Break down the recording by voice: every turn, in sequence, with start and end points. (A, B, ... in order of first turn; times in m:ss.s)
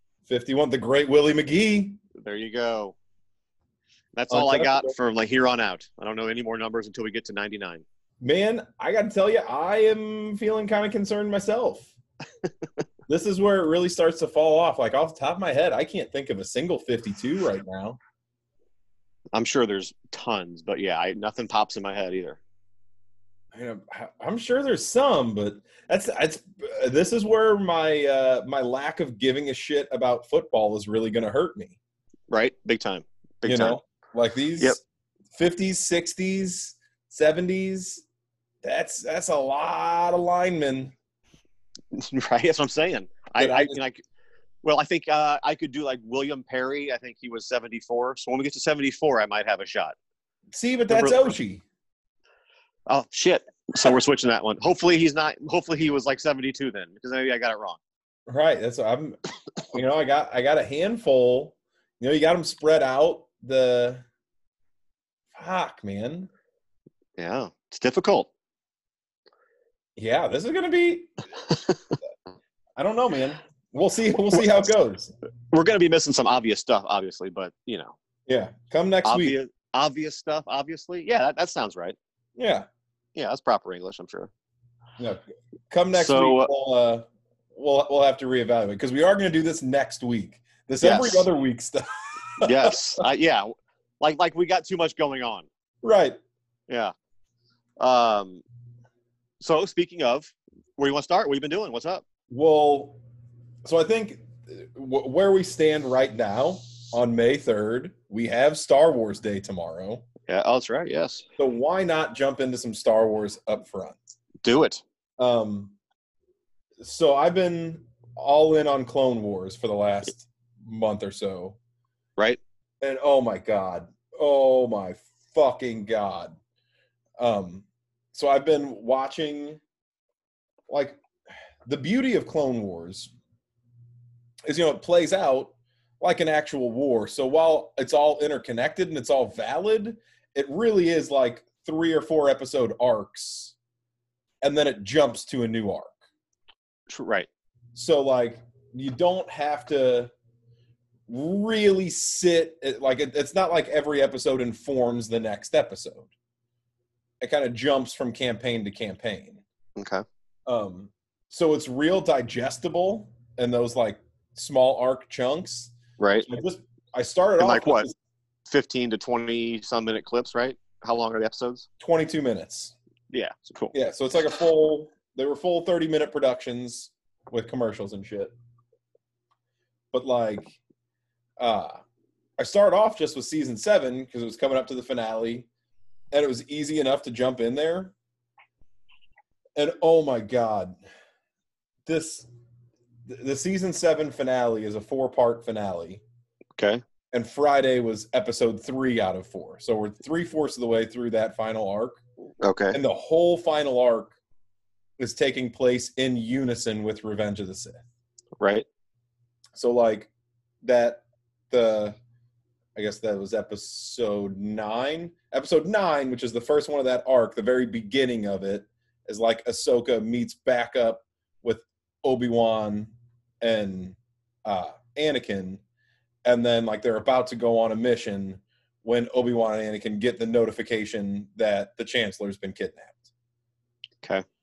0:00.3-0:02.0 A
0:02.2-0:03.0 B
0:04.1-0:07.8 B
0:04.3-0:04.9 A
0:08.2-0:11.9 A
0:13.1-0:18.0 A
0:19.3-0:22.4 B
0:23.5-0:31.8 A
0:32.3-0:33.8 B
0:33.4-0:34.8 A
0:35.3-0:38.0 A
0:38.6-0:40.9 A
0:41.9-0:44.0 B
0:43.4-0:43.8 A
0:44.6-0:49.9 B
0:50.5-0:51.6 A
0:50.9-0:51.3 B
0:52.9-0:57.8 B
0:58.3-0:59.2 A
0:59.7-1:04.0 A
1:05.3-1:06.3 A
1:07.2-1:08.3 B
1:10.0-1:11.1 A
1:12.8-1:15.1 A
1:14.3-1:14.6 B
1:15.5-1:18.0 B
1:18.3-1:19.4 A
1:19.0-1:22.0 B
1:22.4-1:22.7 A
1:23.1-1:24.3 B
1:25.0-1:31.8 A
1:25.9-1:26.5 B
1:30.8-1:31.3 B
1:32.4-1:32.8 A
1:32.4-1:35.5 B
1:35.8-1:36.2 A
1:37.8-1:38.4 B
1:39.4-1:42.0 B
1:42.3-1:43.0 A
1:43.6-1:50.1 A
1:50.3-1:51.2 B
1:51.4-1:54.0 A
1:54.4-1:54.8 B
1:55.2-1:55.7 A
1:56.8-2:01.6 A
2:02.8-2:06.3 A
2:07.2-2:09.6 A
2:10.7-2:11.0 A
2:11.6-2:13.1 A
2:14.4-2:23.6 A
2:24.4-2:25.9 A
2:26.9-2:27.3 B
2:27.7-2:30.1 A
2:31.1-2:36.1 A
2:37.2-2:39.4 A
2:39.8-2:40.0 B
2:40.4-2:45.7 A
2:46.0-2:46.3 B
2:46.3-2:47.9 A
2:47.4-2:47.9 B
2:48.5-2:51.7 B
2:51.8-2:52.7 A
2:53.1-2:53.7 B
2:53.7-2:58.3 A
2:59.9-3:00.6 A
3:01.4-3:01.8 A
3:02.4-3:05.5 A
3:06.1-3:07.9 A
3:09.6-3:10.8 A
3:11.8-3:12.3 A
3:13.1-3:16.0 A
3:16.6-3:16.8 B
3:17.1-3:22.0 A
3:22.4-3:22.8 B
3:22.7-3:24.1 A
3:25.0-3:27.8 A
3:28.4-3:28.6 B
3:29.5-3:30.1 A
3:30.6-3:32.0 A
3:32.8-3:45.6 A
3:46.2-3:53.0 A